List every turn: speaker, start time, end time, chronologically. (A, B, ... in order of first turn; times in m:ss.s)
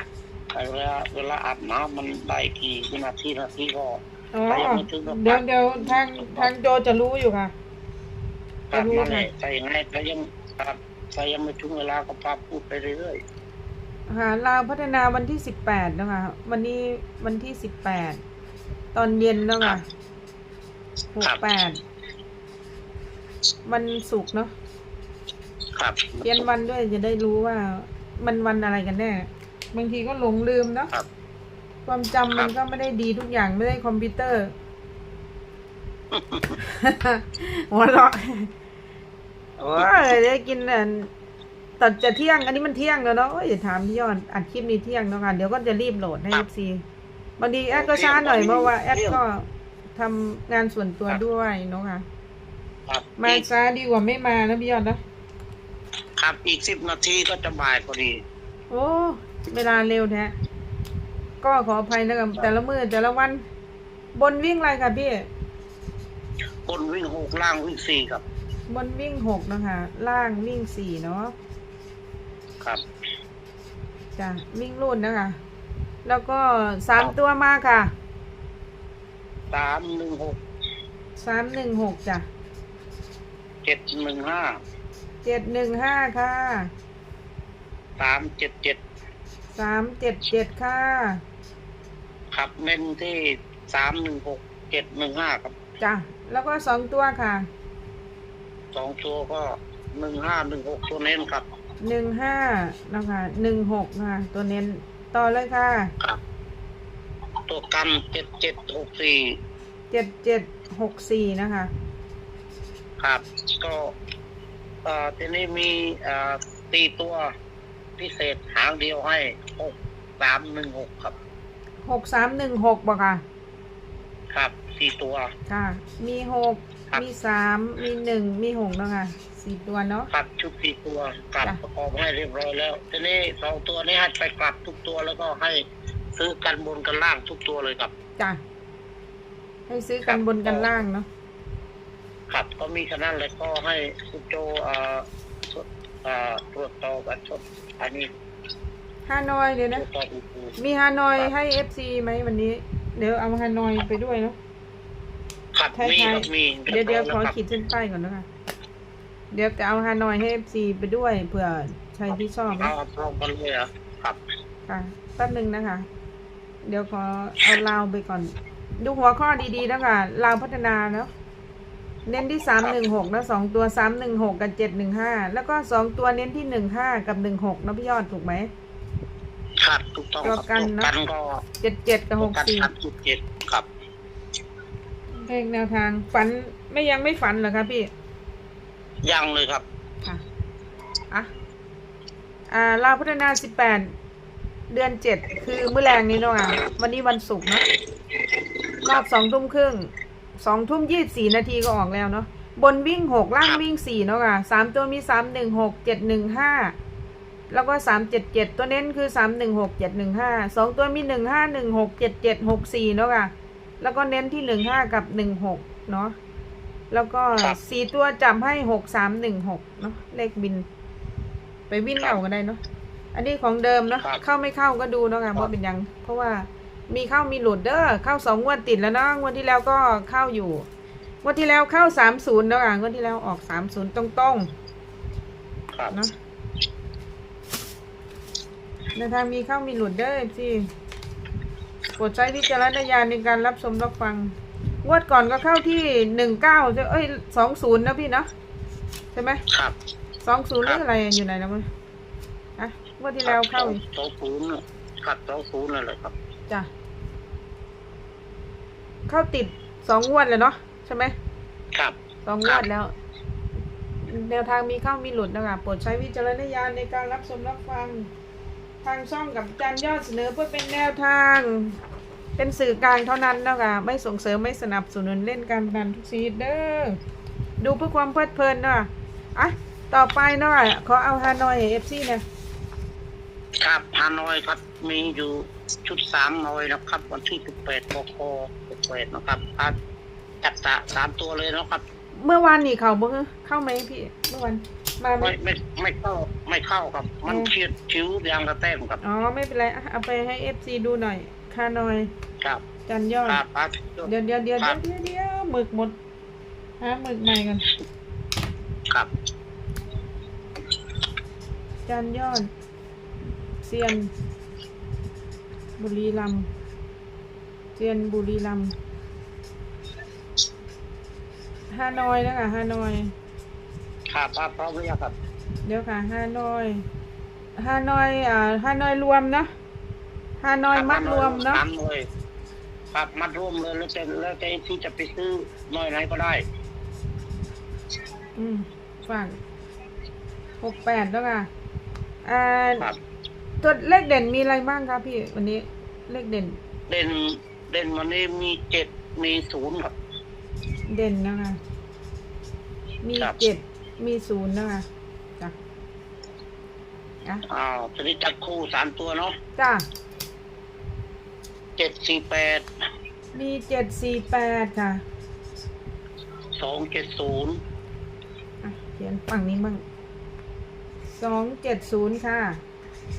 0:00.5-0:06.5 A
0:04.3-0:07.5 B
0:08.7-0:13.2 A
0:08.7-0:09.3 B
0:14.1-0:18.2 B
0:18.9-0:19.8 B
0:21.1-0:21.8 B
0:23.7-0:24.5 B
0:25.8-0:26.5 A
0:26.2-0:30.9 B
0:31.9-0:34.5 B
0:36.1-0:36.6 A
0:36.6-0:38.5 B
0:39.6-0:40.2 A
0:39.7-0:41.1 B
0:41.8-0:46.8 B
0:47.4-0:52.0 B
0:47.7-0:49.2 A
0:52.9-0:53.4 A
0:53.2-0:55.0 B
0:56.2-0:58.2 A
0:58.7-1:00.3 B
1:01.4-1:03.4 B
1:04.2-1:05.3 B
1:06.7-1:08.2 A
1:08.7-1:11.3 B
1:14.2-1:15.4 B
1:16.0-1:17.9 B
1:19.5-1:20.4 A
1:21.2-1:22.3 B
1:23.6-1:24.6 A
1:25.2-1:26.7 B
1:28.0-1:28.8 A
1:29.6-1:31.2 B
1:32.3-1:35.6 A
1:35.8-1:37.5 B
1:38.7-1:41.5 A
1:41.8-1:45.9 B
1:47.5-1:49.4 A
1:49.9-1:51.7 B
1:53.0-1:54.0 A
1:54.8-1:57.3 A
1:58.0-2:01.2 A
2:01.8-2:03.2 B
2:04.3-2:05.3 A
2:05.5-2:10.1 B
2:10.1-2:15.6 A
2:16.2-2:17.9 A
2:19.7-2:21.1 B
2:20.1-2:20.7 A
2:22.3-2:28.1 A
2:29.1-2:29.8 B
2:29.8-2:30.6 A
2:30.6-2:34.4 B
2:35.5-2:37.4 A
2:35.8-2:38.3 B
2:39.3-2:42.7 B
2:42.1-2:44.2 A
2:44.7-2:45.9 B
2:46.6-2:51.1 B
2:52.1-2:58.5 B
2:59.6-3:01.4 A
3:00.2-3:00.9 B
3:01.6-3:02.7 B
3:02.2-3:03.7 A
3:05.2-3:07.9 B
3:09.0-3:09.6 A
3:12.5-3:13.9 B
3:14.7-3:17.7 B
3:18.8-3:26.8 B
3:27.5-3:36.2 B
3:36.9-3:40.6 B
3:41.7-3:42.6 B
3:43.1-3:50.7 B
3:51.2-3:54.5 B
3:59.0-4:00.7 B
4:02.0-4:08.3 B
4:09.1-4:09.4 B
4:09.5-4:09.8 A
4:10.2-4:11.7 B
4:12.6-4:13.8 B
4:13.2-4:16.1 A
4:19.1-4:21.2 B
4:21.7-4:22.6 A
4:22.2-4:22.9 B
4:24.0-4:28.1 B
4:28.8-4:31.8 B
4:32.4-4:37.0 B
4:37.6-4:42.2 B
4:43.6-4:49.8 A
4:50.4-4:51.8 A
4:52.2-4:55.4 B
4:55.2-4:59.0 A
4:59.0-5:02.1 B
5:02.9-5:03.4 B
5:03.3-5:04.8 A
5:04.0-5:06.0 B
5:06.8-5:07.7 B
5:11.9-5:12.5 B
5:13.6-5:14.1 B
5:15.8-5:16.5 B
5:17.8-5:18.7 B
5:21.7-5:23.1 B
5:24.1-5:25.1 A
5:25.6-5:26.8 B
5:27.6-5:29.5 B
5:30.4-5:31.6 B
5:30.7-5:32.1 A
5:32.9-5:36.4 A
5:38.4-5:39.4 B
5:40.6-5:41.5 B
5:42.2-5:42.9 B
5:43.6-5:46.6 B
5:46.9-5:49.9 A
5:50.9-5:51.6 B
5:53.0-5:54.9 B
5:57.5-5:59.4 A
5:59.6-5:59.8 B
6:01.8-6:02.7 A
6:03.3-6:05.0 B
6:06.6-6:07.6 A
6:08.6-6:09.8 B
6:11.2-6:12.6 B